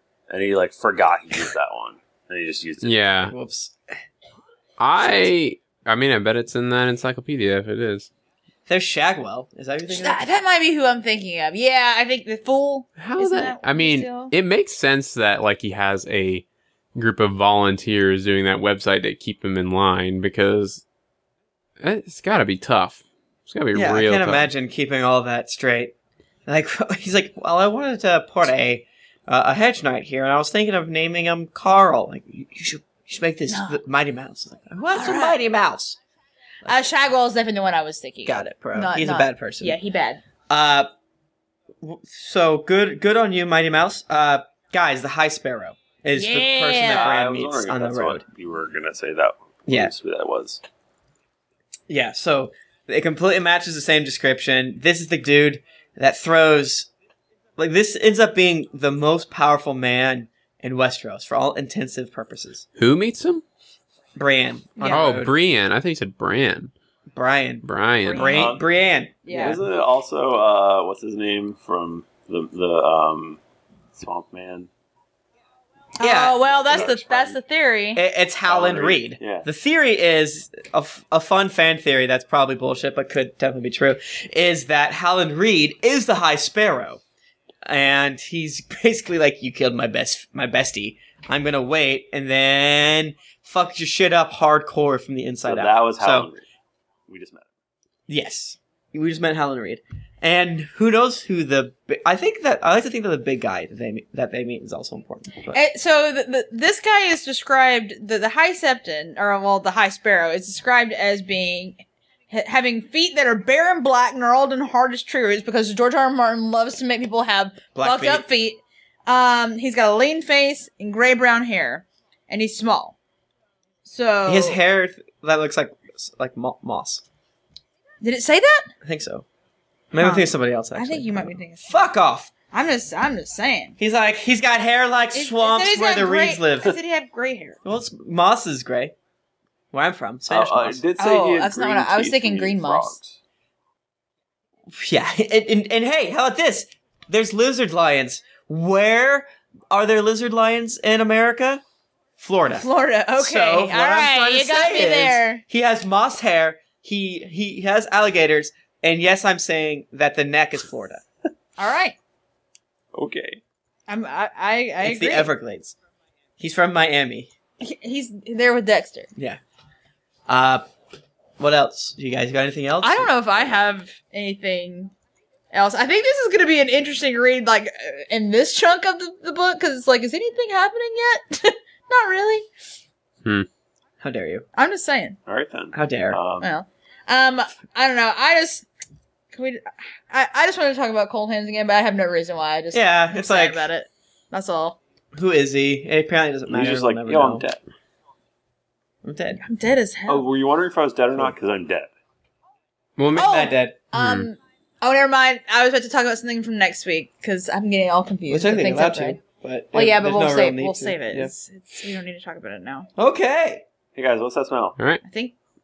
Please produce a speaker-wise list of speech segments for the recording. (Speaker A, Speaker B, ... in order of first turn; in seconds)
Speaker A: 0.3-3.0, 46.8-50.6, 68.1-68.7, 69.3-73.4, 73.9-74.7, 76.3-77.4, 78.5-79.5, 95.4-96.4, 97.1-97.5, 140.3-143.2, 162.9-163.4, 185.3-186.5, 196.5-197.6, 200.1-201.9, 213.9-214.8
Speaker B: 2.8-3.3, 4.8-8.1, 13.0-20.8, 21.8-24.5, 62.8-63.4, 64.8-66.7, 67.6-68.5, 203.0-203.3, 203.9-204.3
Speaker C: 3.3-3.8, 8.7-10.2, 23.7-25.9, 26.5-36.0, 38.2-39.8, 40.5-40.9, 41.8-48.2, 49.7-49.9, 51.9-56.9, 57.6-62.6, 64.2-65.3, 67.1-69.6, 76.0-76.4, 77.9-87.0, 87.7-96.3, 98.1-105.6, 117.7-118.2, 124.2-127.0, 128.8-129.2, 129.9-132.3, 133.8-136.8, 137.6-138.9, 139.7-140.8, 144.7-151.6, 152.2-161.0, 164.8-165.8, 166.4-167.3, 170.3-170.6, 171.4-173.6, 184.0-184.4, 185.7-186.2, 192.7-193.7, 195.1-197.5, 199.0-199.4, 203.1-203.8, 208.3-211.3, 212.9-213.6
Speaker D: 9.9-14.3, 33.5-33.8, 34.9-35.4, 36.6-40.2, 46.1-47.1, 64.8-65.0, 68.0-68.5, 69.2-69.6, 76.0-78.0, 105.5-123.0, 123.8-124.6, 128.0-128.7, 130.0-131.9, 132.5-133.8, 135.1-137.6, 141.0-143.0, 152.5-155.4, 161.6-161.9, 163.9-165.3, 167.6-169.1, 172.8-174.9, 175.5-182.4, 184.6-185.2, 186.4-188.7, 189.3-194.8, 199.4-200.2, 203.1-209.2, 209.7-212.9, 215.0-215.3